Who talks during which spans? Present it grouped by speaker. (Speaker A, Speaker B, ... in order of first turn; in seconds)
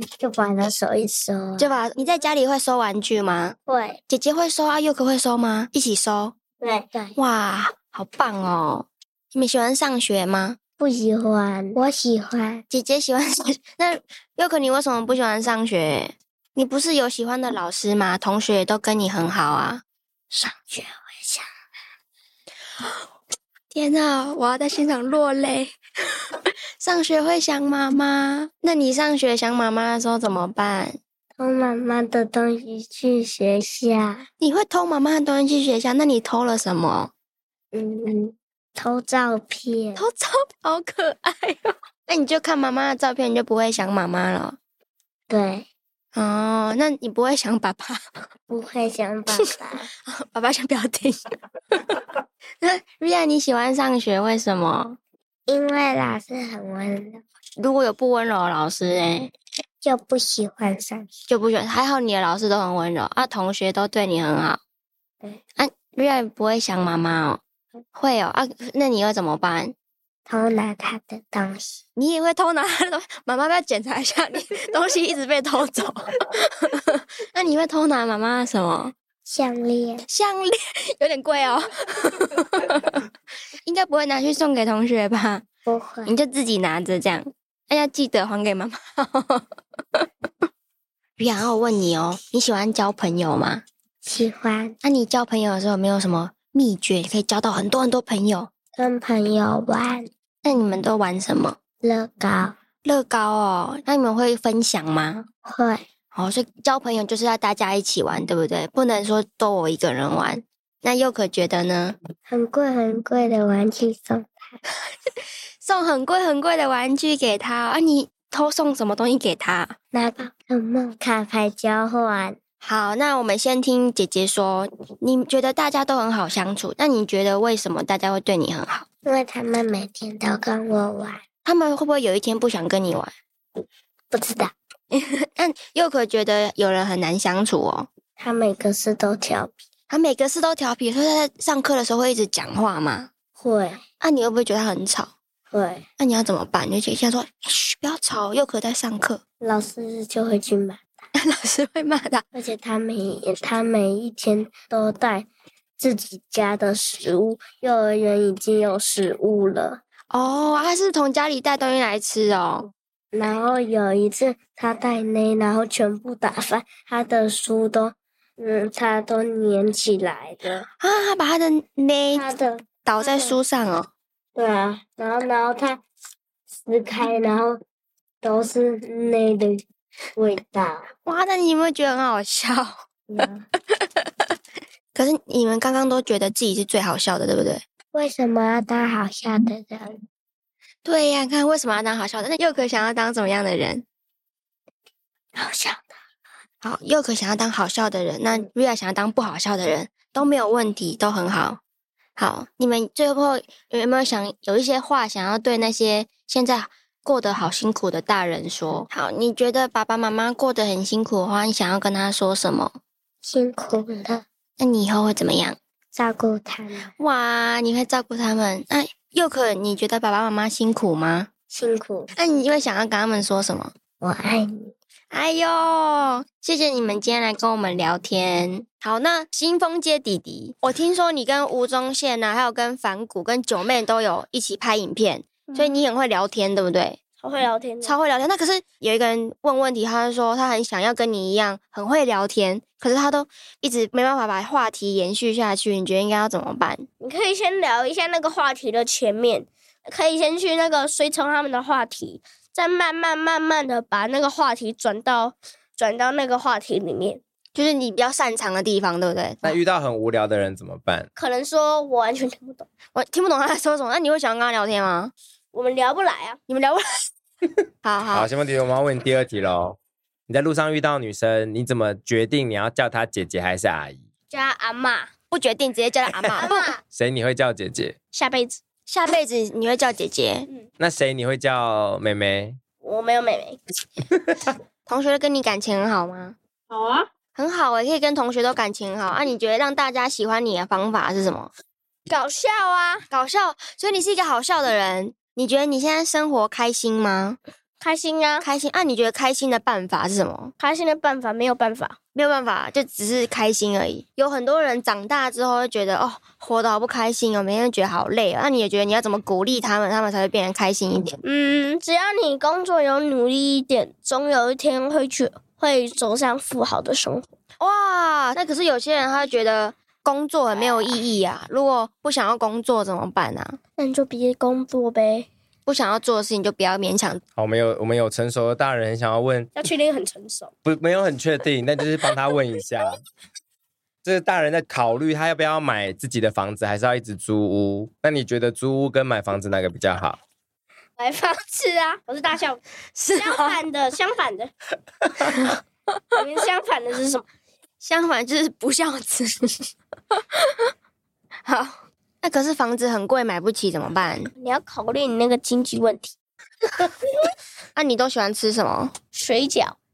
Speaker A: 0.2-1.8, 3.6-4.0, 6.6-7.2, 10.8-12.6, 20.3-21.4, 31.4-34.2, 37.7-40.0, 45.3-45.7, 48.5-49.9, 55.5-57.2, 59.8-61.1, 70.2-71.8, 79.2-80.0, 85.7-86.1, 94.0-94.8, 98.8-100.1, 101.8-102.5, 105.4-105.8, 112.3-114.6, 119.9-122.4, 129.0-131.2, 134.1-134.5, 138.2-139.5, 143.3-143.8, 145.5-145.8, 149.4-150.8, 152.3-159.8, 163.1-170.7, 172.1-173.4, 174.3-175.8, 176.7-177.6, 178.2-179.6, 180.1-180.9, 183.1-183.4, 187.9-190.0, 195.3-195.9, 213.2-214.2, 215.9-216.9, 221.5-222.1, 224.0-224.7
Speaker B: 1.6-3.5, 4.1-6.3, 7.2-10.6, 12.7-19.8, 23.7-25.7, 26.8-31.0, 34.4-37.1, 40.0-44.6, 46.1-48.2, 50.0-51.3, 52.6-55.0, 57.6-59.3, 61.3-64.6, 65.6-67.4, 67.9-69.7, 72.0-78.9, 80.1-83.0, 83.6-85.4, 86.0-89.4, 91.2-93.6, 94.8-98.5, 100.4-101.6, 102.8-105.3, 106.1-112.0, 115.6-119.7, 122.6-128.8, 131.4-133.1, 134.9-137.9, 139.9-143.1, 144.0-145.1, 146.0-149.2, 151.2-152.2, 160.1-162.7, 170.8-172.3, 172.8-173.9, 181.1-182.8, 183.7-184.1, 184.9-187.6, 190.8-193.8, 196.6-201.6, 202.2-212.8, 214.6-215.6, 217.0-221.3, 222.1-223.7, 225.1-237.0, 237.8-246.9, 257.5-259.6, 262.9-265.1, 266.5-266.8, 267.8-268.3, 275.3-276.7, 278.9-280.5, 284.9-286.4, 287.4-291.5, 293.1-297.4, 298.4-300.5, 302.1-311.2, 317.6-323.6, 325.6-327.2, 342.9-343.6, 347.8-350.7, 351.4-354.3, 357.8-358.9
Speaker C: 235.5-235.8, 237.2-238.0, 247.0-257.2, 261.1-262.6, 265.5-266.4, 274.3-275.1, 276.4-276.8, 278.1-278.6, 282.8-283.6, 286.7-287.1, 292.1-293.0, 297.8-298.5, 300.6-302.0, 311.2-317.3, 323.8-325.3, 329.6-330.5, 341.0-344.5, 346.1-347.3, 354.4-356.1, 359.1-359.8
Speaker D: 259.4-261.1, 268.1-269.8, 270.3-274.0, 276.2-277.9, 280.8-282.6, 327.4-329.6, 330.6-333.0, 334.0-340.2